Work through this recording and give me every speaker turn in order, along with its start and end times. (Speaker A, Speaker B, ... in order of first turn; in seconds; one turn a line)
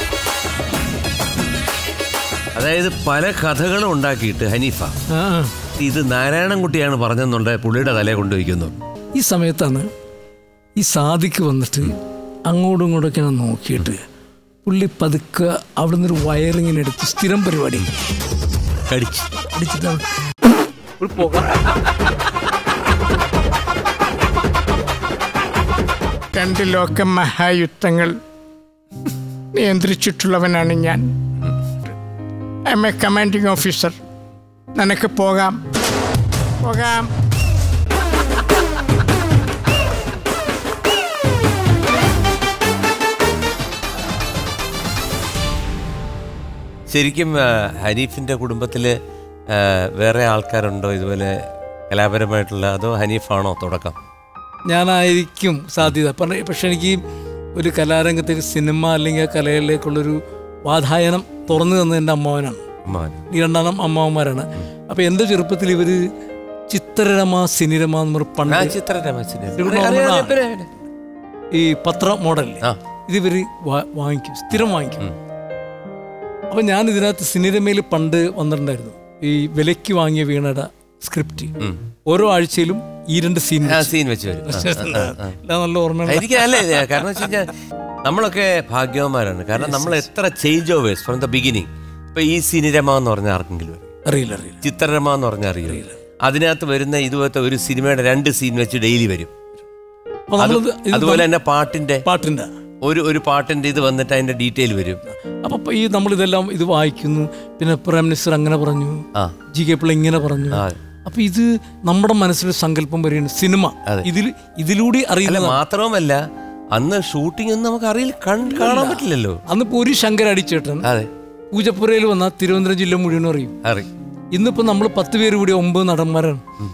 Speaker A: 2.5-4.9
Speaker B: 5.1-5.5
Speaker A: 5.7-8.8
Speaker B: 9.1-9.9
Speaker B: 10.8-11.9
Speaker B: 12.5-14.0
Speaker B: 14.6-17.9
Speaker A: 18.9-19.3
Speaker B: 19.5-20.0
Speaker B: 21.0-21.6
Speaker C: 26.3-28.1
Speaker C: 29.5-31.1
Speaker C: 32.7-34.0
Speaker C: 34.8-35.6
Speaker C: 36.6-37.1
Speaker A: 46.9-48.9
Speaker A: 49.5-51.4
Speaker A: 51.9-54.0
Speaker B: 54.7-57.0
Speaker B: 57.5-62.6
Speaker A: 62.9-63.2
Speaker B: 63.3-66.0
Speaker B: 66.7-68.8
Speaker A: 68.5-70.7
Speaker B: 69.6-70.4
Speaker B: 71.5-75.1
Speaker B: 76.5-81.5
Speaker B: 82.1-87.0
Speaker A: 83.6-85.3
Speaker A: 86.0-87.5
Speaker A: 88.0-93.9
Speaker B: 89.6-90.1
Speaker B: 94.0-94.6
Speaker A: 94.6-99.3
Speaker B: 95.6-96.0
Speaker B: 100.3-101.3
Speaker A: 100.4-102.0
Speaker B: 102.0-102.5
Speaker A: 102.8-105.0
Speaker B: 105.0-115.6
Speaker A: 110.5-110.8
Speaker A: 115.2-116.2
Speaker A: 116.7-119.4
Speaker B: 118.5-120.9
Speaker A: 120.8-121.1
Speaker B: 121.5-123.5
Speaker A: 123.6-123.9
Speaker B: 124.3-126.4